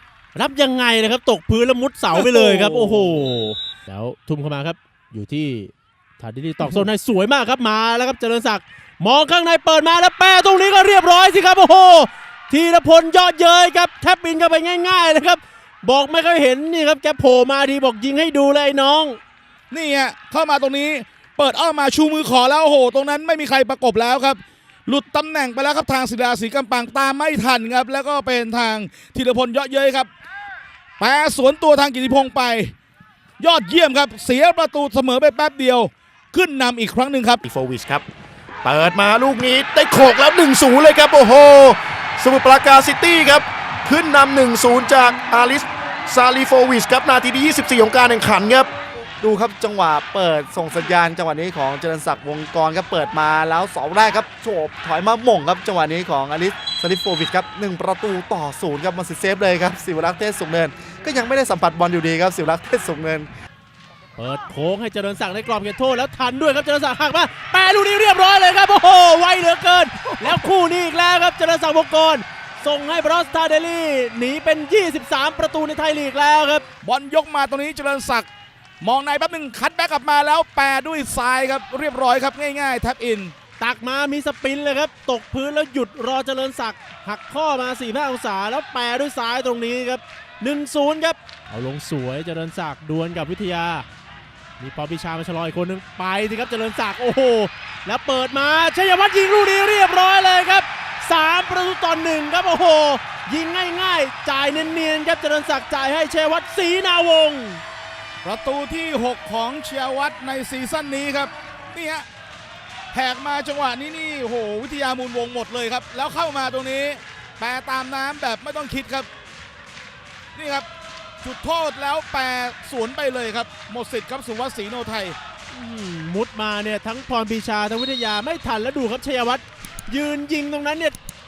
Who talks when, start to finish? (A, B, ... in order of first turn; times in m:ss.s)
0:00.4-0:19.2 A
0:19.7-0:30.1 B
0:31.0-0:32.7 B
0:33.4-0:37.4 B
0:37.5-0:38.0 C
0:38.6-0:48.7 C
0:49.2-1:03.3 D
1:04.2-1:16.6 A
1:16.8-1:18.3 B
1:18.8-1:23.3 B
1:23.6-1:33.9 A
1:34.6-1:47.6 A
1:48.2-1:52.0 B
1:52.9-1:59.1 B
2:00.4-2:00.7 B
2:01.2-2:05.2 B
2:05.5-2:11.0 A